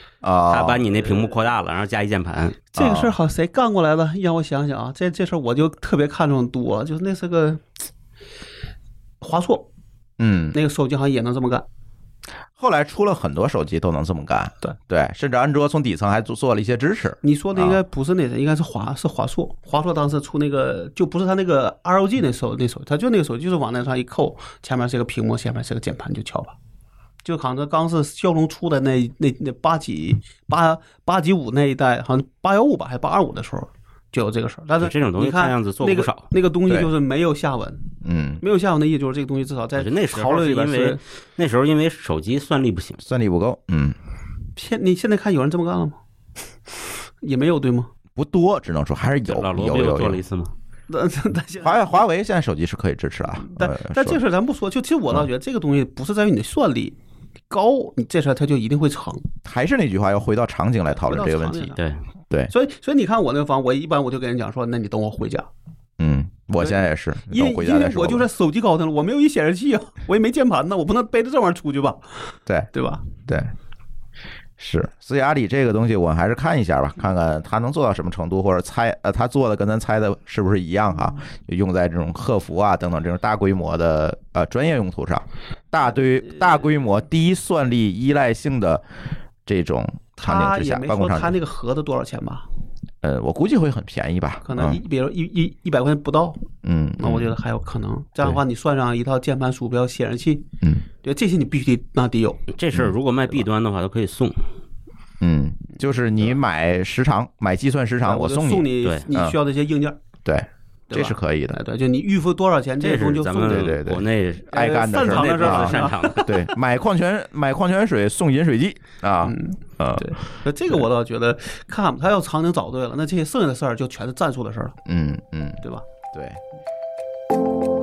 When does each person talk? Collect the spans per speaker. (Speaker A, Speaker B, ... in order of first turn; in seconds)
Speaker A: 0.2-0.8, 2.8-3.1, 10.2-10.6, 12.6-17.8, 38.0-38.4, 43.0-44.0, 48.2-50.2, 51.6-54.2, 59.5-61.8, 66.0-68.3, 73.2-73.5, 74.6-88.8, 89.5-91.4, 93.0-94.8, 96.6-97.3, 105.2-109.4, 110.2-111.6, 113.5-120.2, 124.8-126.4
Speaker B: 0.5-2.6, 34.8-36.3, 39.8-43.0, 49.2-50.5, 102.5-104.5, 108.8-109.1, 112.8-116.4
Speaker C: 1.1-1.3, 2.7-7.7, 9.2-9.7, 10.5-11.7, 17.2-26.6, 27.2-37.9, 38.4-41.0, 44.6-46.0, 47.2-47.9, 50.9-52.0, 53.4-57.0, 57.5-59.3, 61.0-61.8, 62.5-65.5, 66.6-72.1, 72.7-73.2, 90.2-92.5, 94.4-96.5, 97.0-100.5, 101.0-102.4, 108.0-110.0, 110.9-113.8, 114.5-116.5, 119.2-124.8